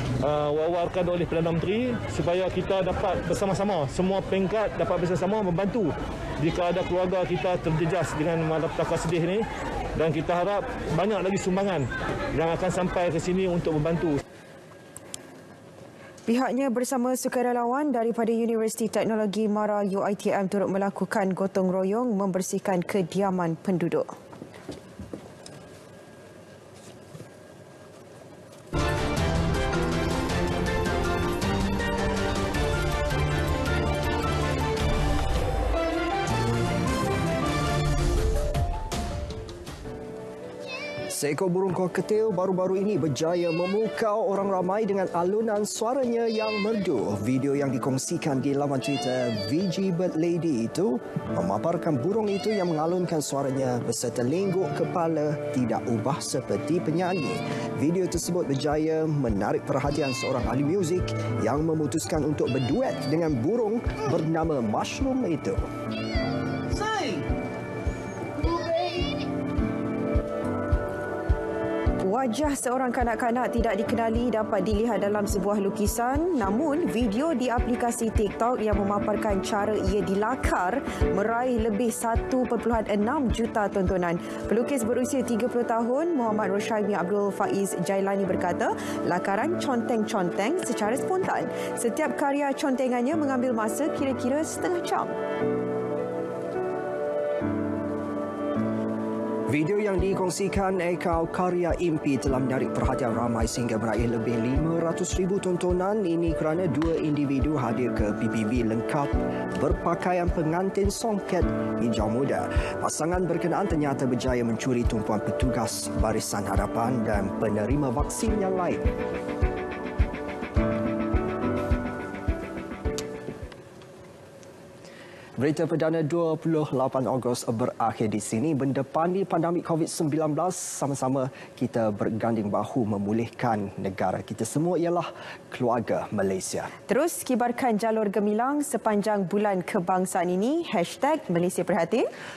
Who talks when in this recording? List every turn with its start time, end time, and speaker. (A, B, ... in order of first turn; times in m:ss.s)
0:00.2-0:09.4 A
0:10.0-0:14.2 A
0:16.3-0:24.1 B
0:41.1-1:05.6 C
1:12.0-1:35.2 B
1:39.5-1:58.8 C
2:05.4-2:16.7 C
2:16.9-2:22.1 B